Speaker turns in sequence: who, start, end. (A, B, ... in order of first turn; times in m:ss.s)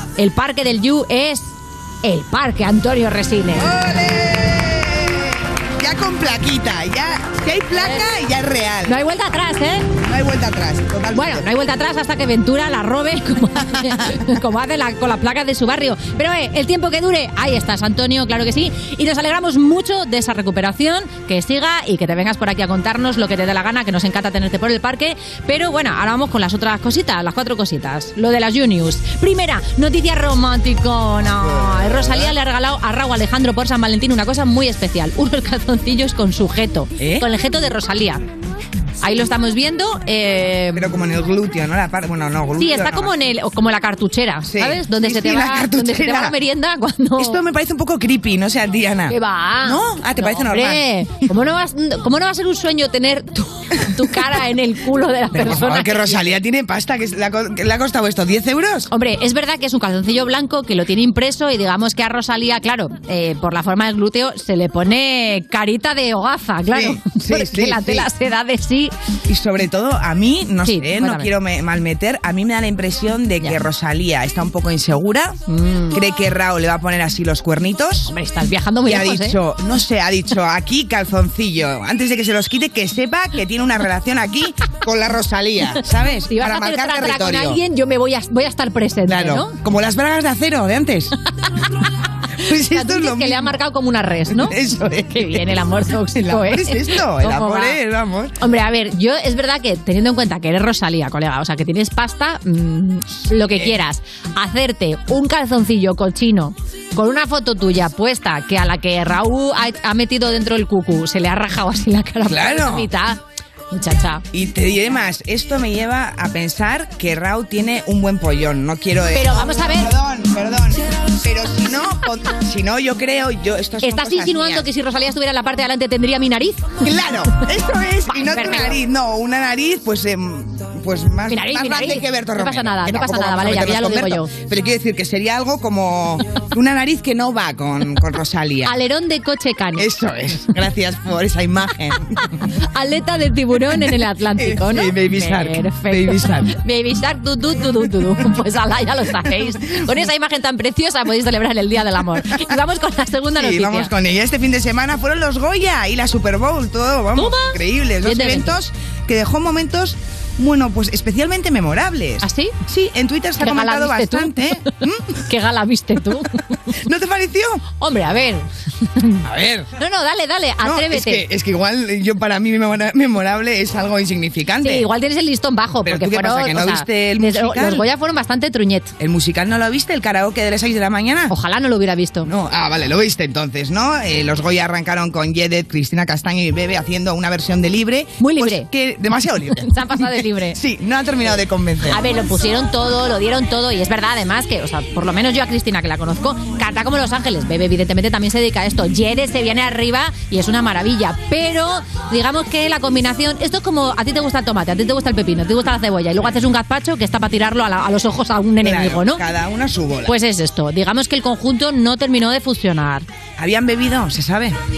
0:00.2-0:03.7 A
0:03.6-0:09.0 B
0:07.8-0:08.0 A
0:08.9-0:09.9 A
0:10.1-0:11.5 B
0:11.1-0:38.3 A
0:37.0-0:37.3 B
0:39.0-0:40.9 A
0:40.8-0:43.1 B
0:42.6-0:47.4 A
0:44.5-0:46.4 B
0:47.2-0:50.8 B
0:49.1-0:56.3 A
0:55.4-0:58.9 B
0:58.9-1:08.9 A
1:06.7-1:08.1 B
1:09.3-1:15.4 B
1:10.7-1:11.3 A
1:15.5-1:16.0 A
1:15.9-1:18.1 B
1:18.1-1:19.4 A
1:18.8-1:27.6 B
1:26.3-1:29.6 A
1:29.1-1:31.1 B
1:32.4-1:33.6 B
1:32.4-1:34.6 A
1:34.3-1:35.5 B
1:35.1-1:37.8 A
1:36.1-1:38.3 B
1:38.4-1:53.2 A
1:52.3-1:52.9 B
1:53.7-1:54.2 A
1:54.3-2:04.7 B
1:59.2-1:59.9 A
2:03.8-2:06.8 A
2:06.8-2:18.7 B
2:08.1-2:08.8 A
2:11.3-2:14.3 A
2:18.7-2:19.9 A
2:19.8-2:22.3 B
2:22.7-2:33.9 A
2:24.4-2:26.5 B
2:33.4-2:45.2 B
2:37.2-2:38.6 A
2:42.2-2:42.5 A
2:43.4-2:44.4 A
2:45.3-2:46.4 A
2:46.8-2:47.6 B
2:47.8-2:49.2 A
2:49.2-2:49.7 B
2:49.8-2:51.2 A
2:50.6-2:54.9 B
2:54.6-2:58.9 A
2:55.8-2:57.8 B
2:59.0-3:01.3 B
3:01.3-3:02.3 A
3:02.2-3:12.2 B
3:08.2-3:08.7 A
3:09.7-3:10.6 A
3:11.9-3:29.2 A
3:28.6-3:30.2 B
3:30.1-3:33.1 A
3:33.4-3:34.6 B